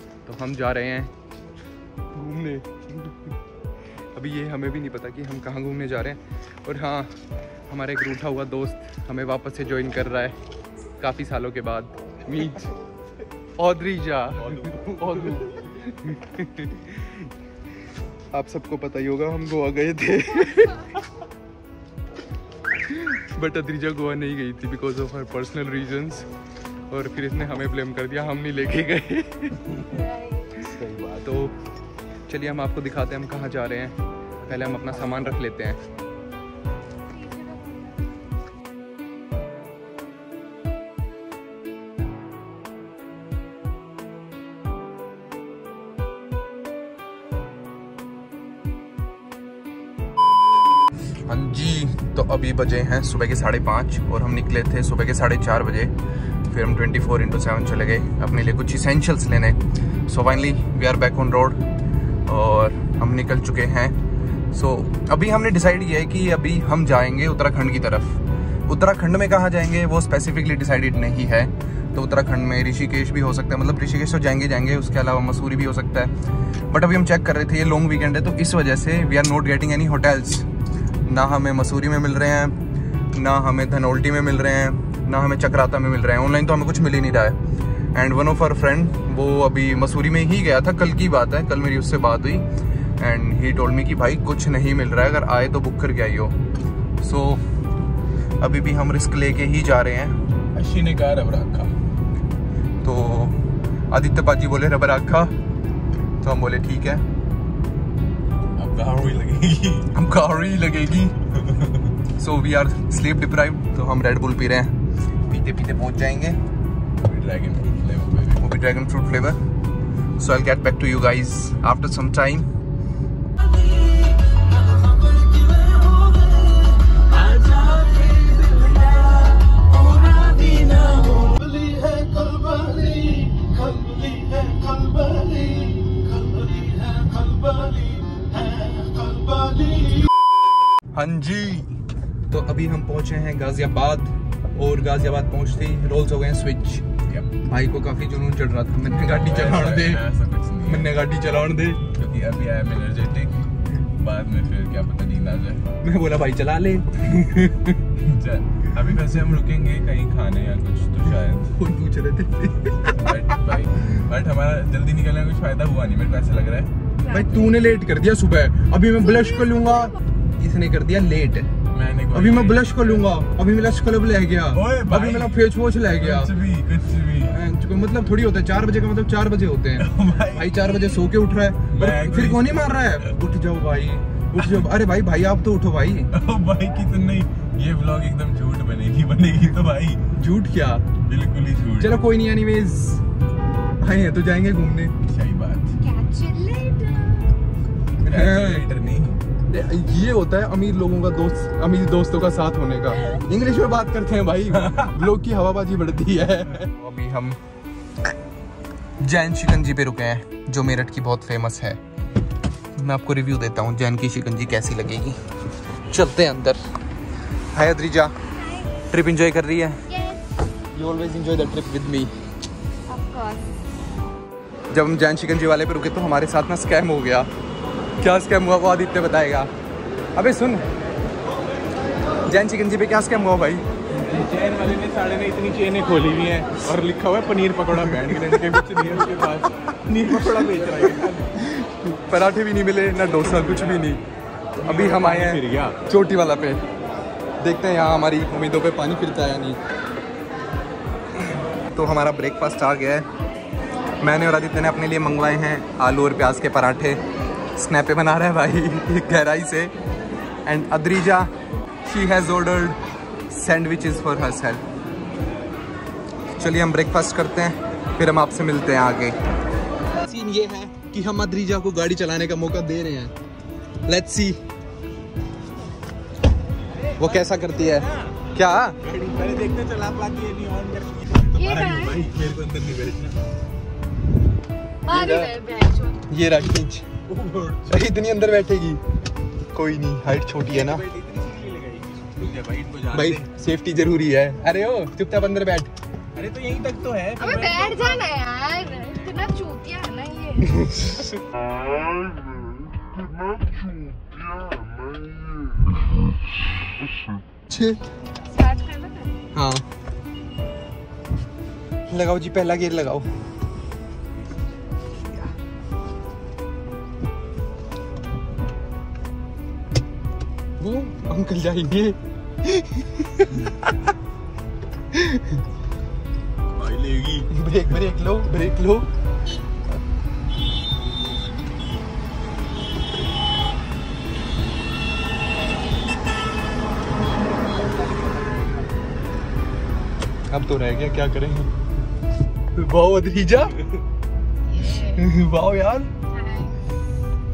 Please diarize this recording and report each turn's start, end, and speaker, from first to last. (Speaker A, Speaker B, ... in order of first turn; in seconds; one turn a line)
Speaker A: 0.2-1.1
Speaker A: 2.1-3.3
Speaker A: 4.1-7.1
Speaker A: 7.7-10.3
Speaker A: 11.0-12.7
Speaker A: 13.6-17.2
Speaker B: 14.4-15.6
Speaker A: 18.3-20.9
Speaker A: 22.9-26.3
Speaker A: 26.9-29.7
Speaker C: 29.9-30.6
Speaker B: 30.6-31.4
Speaker A: 31.2-31.5
Speaker A: 32.3-35.8
Speaker B: 34.4-35.4
Speaker C: 37.1-38.0
Speaker A: 51.2-55.9
Speaker A: 56.5-61.6
Speaker A: 62.2-63.9
Speaker A: 64.5-76.1
Speaker A: 76.7-80.5
Speaker A: 81.0-82.5
Speaker A: 83.1-87.4
Speaker A: 87.9-92.5
Speaker A: 93.0-96.3
Speaker A: 97.0-97.4
Speaker A: 98.4-100.2
Speaker B: 100.5-101.7
Speaker A: 102.8-105.3
Speaker A: 106.2-107.0
Speaker B: 108.5-109.9
Speaker A: 109.9-111.1
Speaker B: 111.3-111.9
Speaker A: 112.2-114.7
Speaker A: 115.3-116.4
Speaker B: 117.0-118.6
Speaker A: 118.4-119.4
Speaker A: 120.2-122.5
Speaker C: 125.8-126.1
Speaker B: 127.2-128.9
Speaker C: 127.6-128.2
Speaker C: 129.8-130.4
Speaker B: 130.3-134.1
Speaker B: 134.7-135.2
Speaker B: 135.9-138.0
Speaker B: 138.9-139.9
Speaker A: 140.9-141.7
Speaker A: 142.3-146.8
Speaker A: 147.4-150.1
Speaker B: 148.8-150.9
Speaker A: 150.7-151.8
Speaker B: 151.9-155.7
Speaker A: 155.8-157.8
Speaker B: 158.0-161.6
Speaker A: 161.5-163.1
Speaker B: 162.9-166.7
Speaker C: 167.0-167.6
Speaker A: 167.1-171.5
Speaker C: 169.1-169.9
Speaker B: 171.7-173.1
Speaker A: 172.1-176.3
Speaker B: 174.5-177.4
Speaker A: 177.2-186.1
Speaker B: 179.8-180.8
Speaker B: 181.7-183.2
Speaker B: 184.4-184.7
Speaker B: 186.1-190.0
Speaker A: 190.1-190.9
Speaker B: 191.0-192.0
Speaker A: 191.8-193.0
Speaker A: 193.8-194.9
Speaker B: 195.0-195.8
Speaker C: 195.8-197.4
Speaker A: 198.0-198.7
Speaker B: 198.1-199.2
Speaker A: 199.5-207.4
Speaker B: 204.5-205.0
Speaker A: 209.0-211.8
Speaker A: 212.8-215.2
Speaker A: 215.9-216.6
Speaker A: 217.5-218.1
Speaker C: 218.3-218.8
Speaker A: 218.8-219.8
Speaker C: 219.9-220.2
Speaker A: 220.7-222.1
Speaker C: 222.9-223.5
Speaker A: 224.7-227.3
Speaker A: 228.0-229.5
Speaker A: 230.1-230.7
Speaker A: 232.3-233.6
Speaker B: 233.9-241.4
Speaker A: 237.7-238.6
Speaker A: 240.1-244.0
Speaker B: 243.3-243.9
Speaker B: 244.6-245.8
Speaker A: 244.6-246.6
Speaker A: 247.4-249.6
Speaker A: 251.7-253.1
Speaker A: 254.0-257.0
Speaker A: 257.6-259.7
Speaker A: 260.4-261.3
Speaker A: 261.9-262.8
Speaker A: 263.3-264.6
Speaker A: 266.4-269.2
Speaker A: 270.0-273.1
Speaker A: 273.9-274.4
Speaker A: 277.0-278.8
Speaker B: 277.8-278.1
Speaker B: 278.8-283.2
Speaker C: 281.3-282.1
Speaker C: 284.8-286.0
Speaker A: 284.9-285.3
Speaker A: 286.1-286.9
Speaker B: 287.1-287.9
Speaker A: 287.7-288.8
Speaker A: 289.5-290.8
Speaker B: 290.4-293.3
Speaker A: 292.9-295.7
Speaker B: 296.1-298.2
Speaker C: 297.2-300.7
Speaker A: 300.6-301.1
Speaker A: 307.5-307.8
Speaker C: 308.2-309.2
Speaker A: 309.3-309.6
Speaker A: 311.9-313.1
Speaker A: 320.6-323.5
Speaker A: 324.9-325.4
Speaker B: 326.5-327.3
Speaker A: 327.3-328.9
Speaker A: 337.7-338.5
Speaker A: 340.3-341.5
Speaker A: 342.5-343.6
Speaker C: 344.4-345.1
Speaker A: 344.9-345.9
Speaker C: 346.1-346.6